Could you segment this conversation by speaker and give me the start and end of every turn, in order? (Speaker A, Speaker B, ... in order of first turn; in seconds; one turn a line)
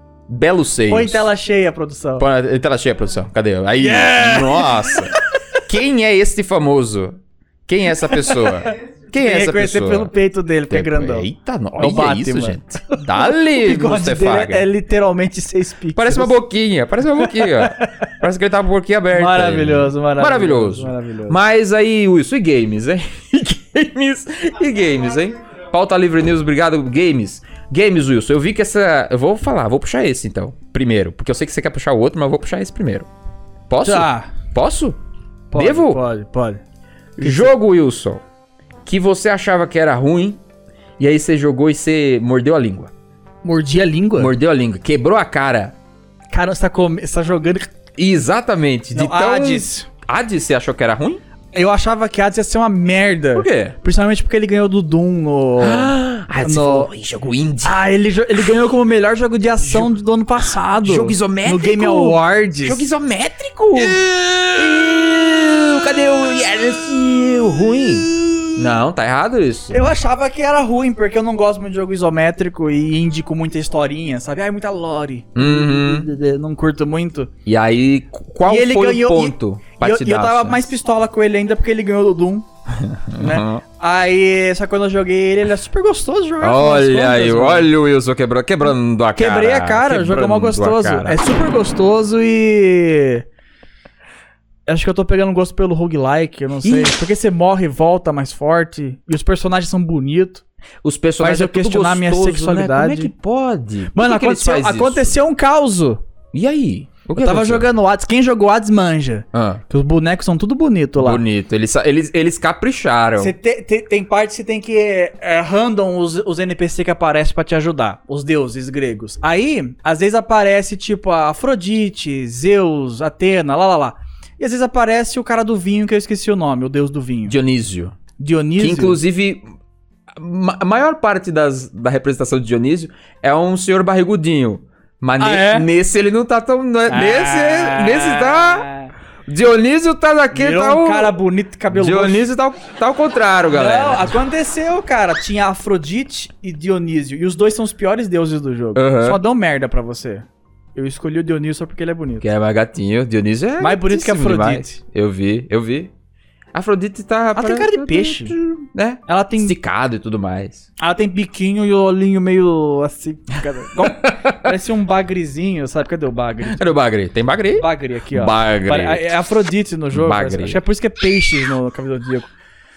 Speaker A: 0.3-1.3
Speaker B: 0.9-2.3
Speaker A: 2.2-10.1
Speaker B: 3.8-5.1
Speaker B: 8.2-16.4
Speaker A: 10.7-14.7
Speaker A: 15.9-33.1
Speaker B: 17.2-18.1
Speaker B: 19.1-21.4
Speaker A: 33.7-35.0
Speaker B: 33.8-34.3
Speaker B: 35.5-36.6
Speaker A: 35.5-36.0
Speaker A: 37.2-38.2
Speaker B: 37.2-37.5
Speaker A: 38.9-40.4
Speaker A: 41.0-42.9
Speaker B: 43.4-44.3
Speaker A: 44.2-45.8
Speaker B: 46.3-47.7
Speaker A: 48.0-51.2
Speaker B: 48.9-49.9
Speaker B: 51.5-56.9
Speaker A: 53.4-53.8
Speaker A: 55.6-57.8
Speaker B: 57.6-62.9
Speaker A: 59.6-59.9
Speaker A: 60.8-69.8
Speaker B: 63.8-64.6
Speaker B: 68.0-68.7
Speaker B: 69.7-77.3
Speaker A: 75.4-76.1
Speaker A: 77.5-80.7
Speaker B: 78.5-82.5
Speaker A: 82.7-83.6
Speaker B: 83.2-87.7
Speaker A: 86.4-91.2
Speaker B: 89.2-93.2
Speaker B: 94.7-100.4
Speaker A: 96.6-97.0
Speaker A: 100.8-105.2
Speaker B: 101.2-103.1
Speaker B: 103.9-106.0
Speaker A: 106.3-107.7
Speaker B: 107.2-111.2
Speaker A: 109.3-109.6
Speaker A: 111.0-113.3
Speaker B: 113.2-127.4
Speaker A: 127.3-128.0
Speaker B: 128.2-129.0
Speaker A: 128.6-129.4
Speaker A: 130.1-138.7
Speaker B: 135.2-135.7
Speaker B: 136.9-138.9
Speaker A: 139.3-141.1
Speaker B: 140.3-142.3
Speaker A: 141.7-144.1
Speaker B: 143.5-152.3
Speaker A: 148.8-149.2
Speaker A: 152.2-155.9
Speaker B: 153.6-154.8
Speaker A: 156.5-160.7
Speaker B: 157.4-159.6
Speaker B: 160.8-166.8
Speaker A: 163.8-164.5
Speaker A: 166.5-169.1
Speaker B: 167.6-172.3
Speaker A: 169.9-170.6